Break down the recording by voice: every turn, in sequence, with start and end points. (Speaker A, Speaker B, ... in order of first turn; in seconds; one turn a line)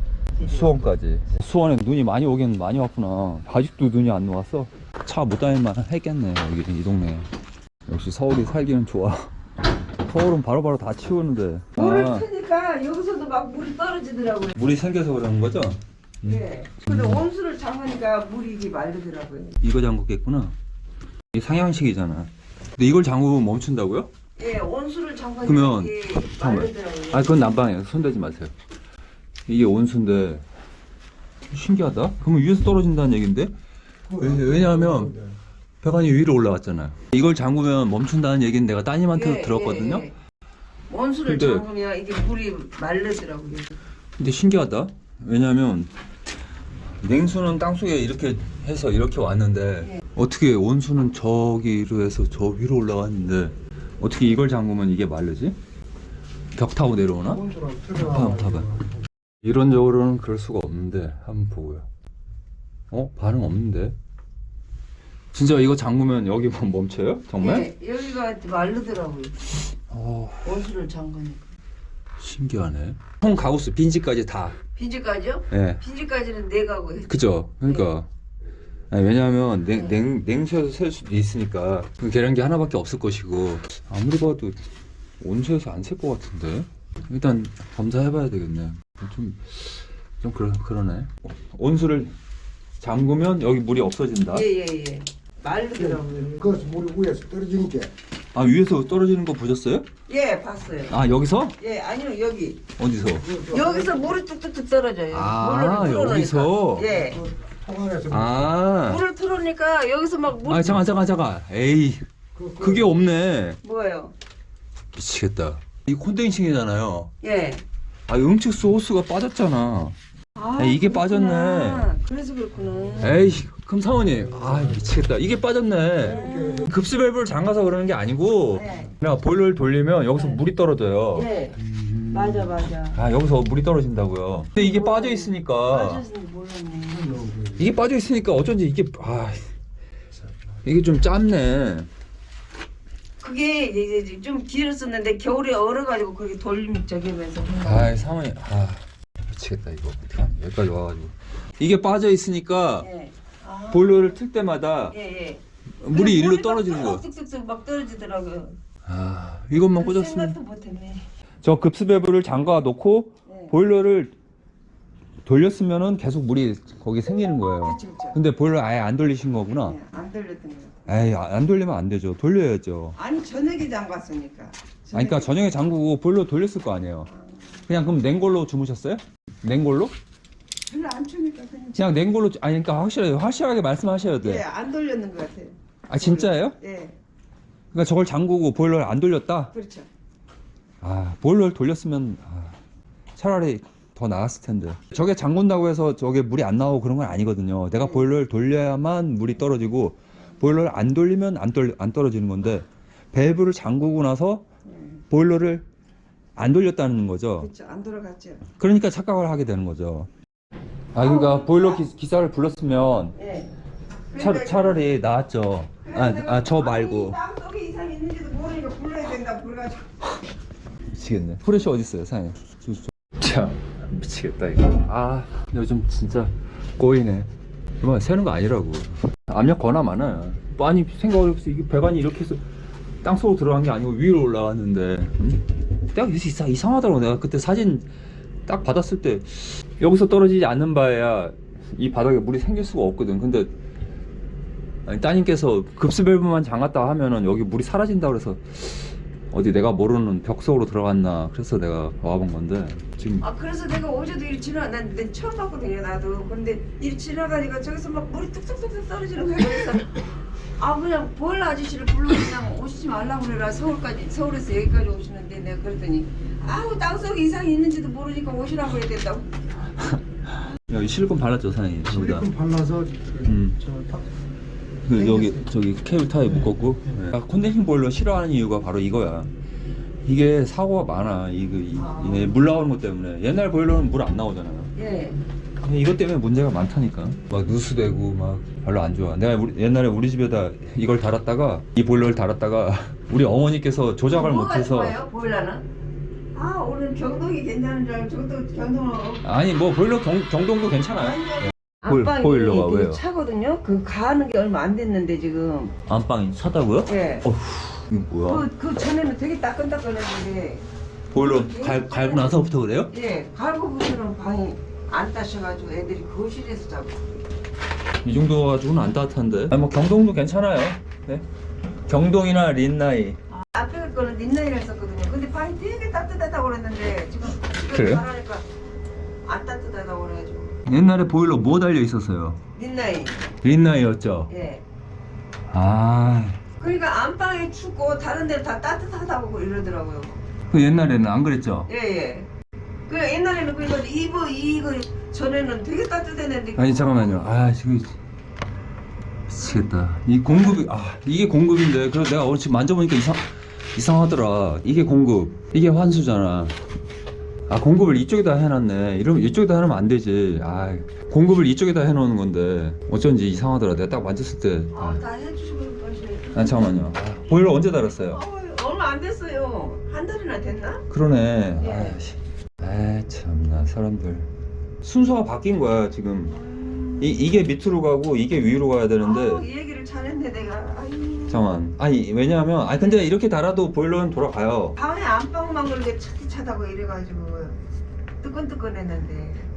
Speaker A: 0.4-7.3
Speaker A: 7.9-9.3
Speaker A: 10.0-12.3
Speaker B: 11.8-14.6
Speaker A: 14.6-17.2
Speaker B: 16.2-19.6
Speaker A: 19.6-20.5
Speaker A: 21.3-24.1
Speaker B: 24.4-27.5
Speaker A: 25.4-28.5
Speaker A: 29.5-30.4
Speaker A: 31.5-33.5
Speaker A: 34.1-35.3
Speaker A: 35.8-40.1
Speaker B: 39.1-40.2
Speaker B: 40.9-43.8
Speaker A: 41.2-41.7
Speaker A: 44.2-45.9
Speaker A: 47.0-55.6
Speaker A: 56.5-58.8
Speaker C: 57.5-58.0
Speaker A: 59.4-61.9
Speaker A: 62.9-64.0
Speaker A: 65.3-67.7
Speaker B: 67.4-69.5
Speaker A: 69.9-70.6
Speaker B: 70.4-71.5
Speaker A: 72.2-74.6
Speaker B: 74.8-77.9
Speaker A: 75.5-75.8
Speaker A: 77.1-78.1
Speaker A: 78.9-84.6
Speaker B: 79.7-80.0
Speaker A: 85.2-92.1
Speaker A: 92.8-94.5
Speaker B: 94.3-96.7
Speaker C: 96.4-97.9
Speaker A: 98.3-99.9
Speaker B: 100.1-101.0
Speaker A: 100.9-101.6
Speaker B: 101.6-102.6
Speaker A: 102.8-103.4
Speaker B: 103.4-107.3
Speaker A: 105.1-106.9
Speaker C: 107.6-108.1
Speaker A: 108.0-109.0
Speaker B: 108.8-110.9
Speaker A: 110.5-113.6
Speaker B: 113.6-114.1
Speaker A: 114.9-117.1
Speaker B: 117.2-117.6
Speaker A: 118.1-120.0
Speaker B: 120.4-123.2
Speaker A: 120.6-121.9
Speaker A: 123.0-131.3
Speaker B: 126.0-126.7
Speaker B: 128.5-128.9
Speaker B: 131.1-133.0
Speaker A: 132.9-136.1
Speaker B: 134.6-137.4
Speaker A: 137.5-139.5
Speaker A: 140.6-141.9
Speaker B: 143.2-148.0
Speaker A: 147.6-152.9
Speaker B: 152.8-154.2
Speaker A: 153.7-154.9
Speaker B: 154.9-158.6
Speaker A: 155.8-157.0
Speaker A: 158.9-160.4
Speaker B: 159.8-161.1
Speaker A: 161.4-164.1
Speaker B: 163.3-163.5
Speaker A: 165.2-169.8
Speaker B: 167.5-168.2
Speaker B: 169.6-170.9
Speaker A: 170.9-173.0
Speaker B: 173.0-175.4
Speaker A: 174.9-177.1
Speaker B: 177.1-177.6
Speaker A: 177.7-179.9
Speaker B: 180.7-182.0
Speaker A: 181.8-184.4
Speaker B: 184.2-187.0
Speaker A: 185.9-186.6
Speaker A: 187.7-189.5
Speaker B: 189.5-189.9
Speaker A: 190.8-192.6
Speaker A: 193.2-204.4
Speaker B: 197.8-198.1
Speaker B: 204.7-205.0
Speaker A: 205.1-205.7
Speaker A: 206.4-207.5
Speaker B: 207.4-208.4
Speaker A: 208.6-210.1
Speaker A: 210.9-213.2
Speaker B: 211.0-211.8
Speaker B: 213.2-213.5
Speaker B: 214.1-215.0
Speaker A: 214.2-217.2
Speaker B: 215.8-219.9
Speaker A: 220.9-227.3
Speaker A: 227.8-232.4
Speaker A: 233.0-237.9
Speaker A: 238.5-243.5
Speaker A: 244.9-253.3
Speaker B: 253.2-269.3
Speaker A: 269.8-272.4
Speaker C: 272.2-273.2
Speaker A: 273.2-273.7
Speaker A: 274.9-279.3
Speaker B: 274.9-275.4
Speaker A: 280.0-284.7
Speaker B: 281.7-282.4
Speaker B: 284.8-285.2
Speaker A: 285.6-295.0
Speaker B: 294.1-295.7
Speaker B: 296.3-299.3
Speaker A: 299.2-303.0
Speaker B: 301.0-305.8
Speaker A: 305.9-308.5
Speaker B: 306.9-307.3
Speaker B: 308.2-317.1
Speaker A: 311.1-312.9
Speaker A: 318.0-321.2
Speaker A: 321.9-323.2
Speaker B: 323.4-328.5
Speaker A: 327.7-328.0
Speaker B: 329.2-330.6
Speaker A: 330.7-332.4
Speaker B: 332.6-333.3
Speaker A: 333.4-334.3
Speaker B: 334.3-334.6
Speaker A: 335.5-336.4
Speaker B: 336.6-340.2
Speaker A: 340.5-341.7
Speaker B: 341.7-342.3
Speaker B: 342.9-347.2
Speaker A: 346.6-348.0
Speaker A: 349.3-356.6
Speaker B: 350.3-350.6
Speaker A: 357.5-365.0
Speaker B: 364.7-366.8
Speaker A: 366.3-368.2
Speaker B: 368.0-370.9
Speaker A: 370.9-374.3
Speaker B: 371.6-372.0
Speaker A: 374.8-376.4
Speaker B: 376.3-377.3
Speaker A: 377.0-379.4
Speaker B: 379.0-381.6
Speaker A: 381.3-384.8
Speaker B: 384.8-387.6
Speaker B: 388.2-389.5